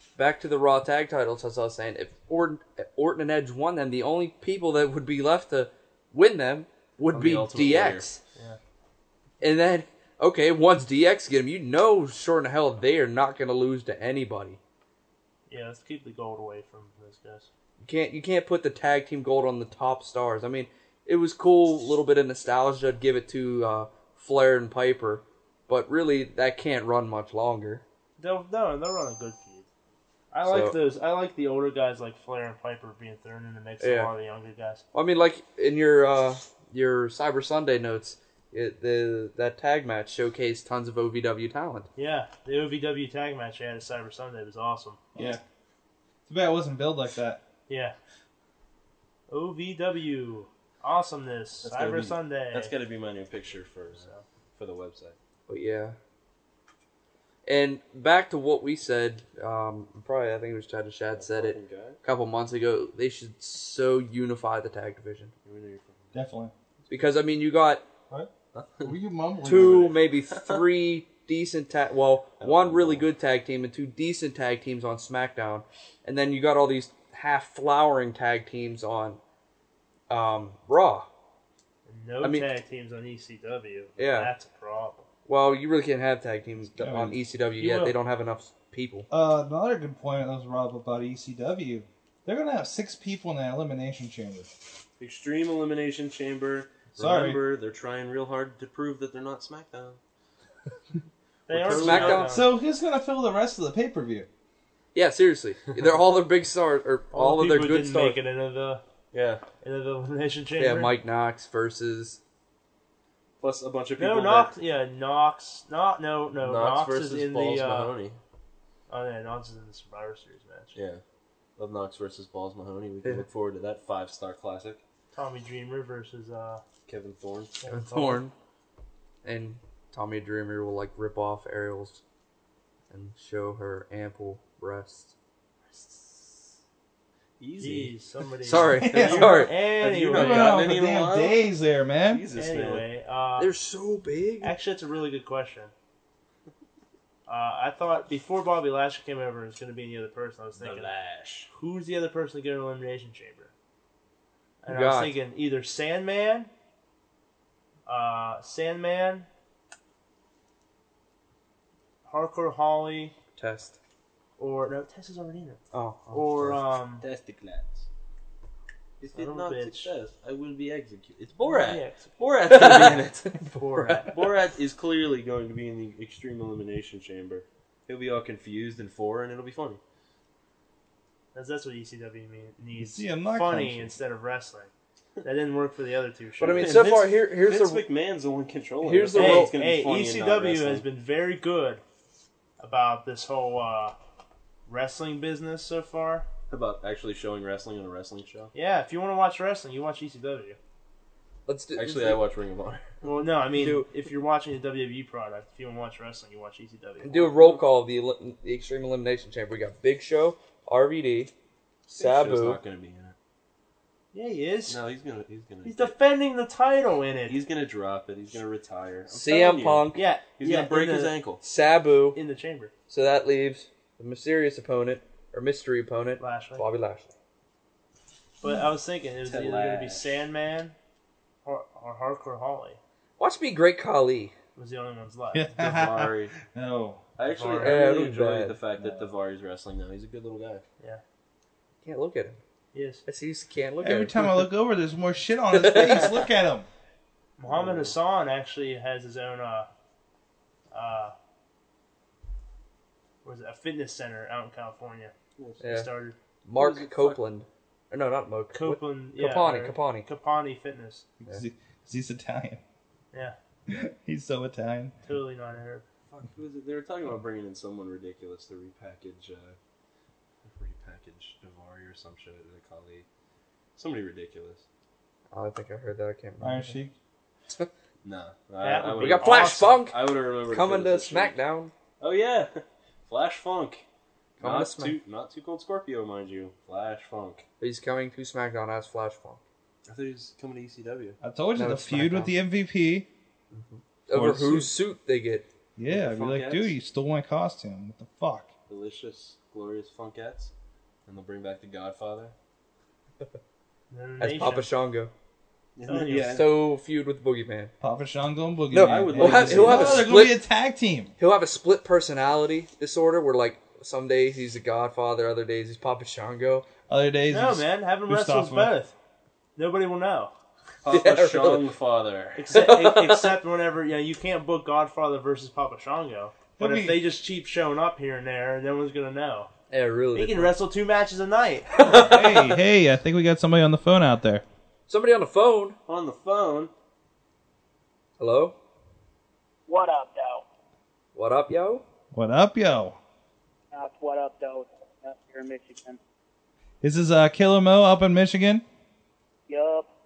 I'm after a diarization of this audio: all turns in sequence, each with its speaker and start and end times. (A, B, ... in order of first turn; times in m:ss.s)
0:00.2-0:08.2 A
0:07.1-0:08.1 B
0:09.4-0:14.6 A
0:15.5-0:17.5 C
0:17.8-0:27.8 A
0:28.2-0:29.7 C
0:30.3-0:34.8 C
0:30.4-0:30.8 A
0:33.8-0:34.1 A
0:34.9-0:41.9 A
0:42.0-0:45.0 C
0:45.2-0:45.4 D
0:46.3-0:47.4 D
0:47.7-0:48.0 C
0:49.3-0:52.7 C
0:51.6-0:55.2 B
0:54.0-0:54.2 C
0:55.5-0:56.0 A
0:57.5-1:05.3 A
1:01.2-1:02.0 B
1:05.4-1:06.1 B
1:06.1-1:06.5 D
1:06.9-1:07.8 A
1:08.5-1:09.0 B
1:08.8-1:10.0 D
1:09.4-1:19.2 A
1:09.6-1:10.6 B
1:12.4-1:13.1 B
1:20.1-1:21.1 A
1:21.9-1:25.1 C
1:22.2-1:22.5 A
1:24.0-1:24.3 A
1:25.3-1:29.1 A
1:26.7-1:27.2 D
1:27.6-1:27.9 C
1:29.1-1:34.6 D
1:35.0-1:40.0 B
1:37.0-1:37.4 D
1:41.5-1:42.5 C
1:41.5-1:42.3 B
1:41.6-1:42.4 A
1:42.3-1:44.3 D
1:45.0-1:48.2 A
1:47.1-1:48.8 C
1:49.1-1:49.4 B
1:49.6-1:50.9 C
1:50.6-1:52.2 A
1:53.4-1:54.5 B
1:54.0-1:57.9 C
1:56.4-1:58.2 B
1:58.9-2:00.8 C
2:00.8-2:01.0 B
2:01.6-2:04.8 B
2:05.1-2:06.6 C
2:06.9-2:07.6 B
2:07.6-2:08.2 C
2:07.7-2:08.3 A
2:09.2-2:12.0 A
2:12.9-2:15.2 A
2:15.7-2:16.2 C
2:17.4-2:17.9 B
2:17.6-2:20.6 C
2:18.4-2:19.5 A
2:18.8-2:19.4 D
2:19.0-2:21.4 B
2:20.1-2:22.3 D
2:22.1-2:22.9 B
2:22.3-2:23.5 C
2:23.4-2:24.5 A
2:24.4-2:25.7 C
2:27.3-2:30.9 C
2:30.6-2:31.5 B
2:31.5-2:33.5 C
2:34.6-2:36.5 C
2:34.7-2:35.2 A
2:37.9-2:39.3 C
2:42.0-2:43.1 C
2:43.4-2:43.8 A
2:44.4-2:47.0 C
2:45.7-2:46.3 A
2:47.0-2:47.9 B
2:49.0-2:53.3 B
2:49.1-2:49.9 C
2:51.4-2:52.2 C
2:52.5-2:54.1 A
2:53.5-2:54.1 C
2:54.1-2:59.8 B
3:01.4-3:04.7 C
3:02.8-3:03.9 D
3:05.2-3:06.8 C
3:06.4-3:07.8 A
3:06.5-3:10.9 B
3:08.8-3:09.5 A
3:09.1-3:11.8 C
3:12.6-3:14.0 C
3:14.7-3:16.3 C
3:16.5-3:18.5 B
3:18.5-3:20.6 C
3:21.5-3:22.2 A
3:21.8-3:22.9 B
3:23.0-3:27.3 C
3:23.5-3:23.9 A
3:27.0-3:31.3 A
3:31.9-3:33.2 B
3:31.9-3:32.6 A
3:34.1-3:34.8 C
3:34.7-3:36.0 B
3:35.6-3:37.4 C
3:37.3-3:41.4 B
3:39.1-3:40.0 A
3:39.9-3:41.2 C
3:41.4-3:42.2 A
3:42.2-3:42.7 C
3:42.9-3:47.1 A
3:46.2-3:46.7 C
3:48.4-3:50.8 C
3:49.2-3:50.2 B
3:51.4-3:52.8 C
3:53.2-3:54.3 A
3:54.6-3:55.5 C
3:55.3-3:57.0 D
3:55.6-3:56.3 B
3:57.2-4:00.6 B
3:57.3-3:57.8 C
3:57.6-3:58.6 A
3:58.8-3:59.1 D
4:01.8-4:02.4 A
4:02.7-4:03.0 C
4:03.1-4:04.5 A
4:03.8-4:06.7 D
4:05.5-4:06.3 A
4:07.4-4:09.7 C
4:07.5-4:08.0 B
4:10.7-4:11.2 C
4:13.2-4:17.2 C
4:15.6-4:15.9 A
4:16.4-4:20.1 A
4:18.5-4:21.1 C
4:21.2-4:22.6 D
4:23.7-4:25.0 D
4:25.0-4:25.8 C
4:26.1-4:29.6 B
4:30.4-4:33.1 B
4:33.8-4:34.6 B
4:35.3-4:36.8 A
4:36.4-4:36.9 D
4:38.0-4:41.4 B
4:38.6-4:39.8 C
4:39.0-4:41.7 A
4:42.0-4:43.8 B
4:44.4-4:45.0 A
4:44.4-4:47.4 B
4:47.6-4:49.4 A
4:49.9-4:51.2 B
4:51.2-4:53.1 D
4:51.6-4:52.3 A
4:53.5-4:55.5 A
4:54.1-4:54.7 D
4:55.8-4:58.5 D
4:55.9-4:56.8 B
4:58.7-5:00.5 B
5:01.1-5:02.4 B
5:03.9-5:04.7 C
5:04.2-5:05.1 A
5:05.8-5:06.5 B
5:05.9-5:06.4 C
5:06.2-5:07.7 A
5:07.8-5:11.1 D
5:08.7-5:10.4 A
5:08.8-5:10.1 B
5:11.2-5:16.7 A
5:16.9-5:18.8 D
5:17.3-5:19.0 C
5:19.6-5:20.3 C
5:20.8-5:22.4 B
5:20.9-5:21.7 A
5:22.4-5:29.5 C
5:22.5-5:23.4 A
5:26.6-5:27.0 D
5:29.7-5:30.6 A
5:30.1-5:32.1 C
5:31.9-5:34.4 D
5:34.9-5:35.8 A
5:35.9-5:36.7 B
5:38.2-5:38.6 A
5:39.7-5:40.4 E
5:41.2-5:41.8 A
5:42.1-5:43.0 D
5:43.7-5:46.0 E
5:46.8-5:48.6 D
5:49.5-5:49.9 E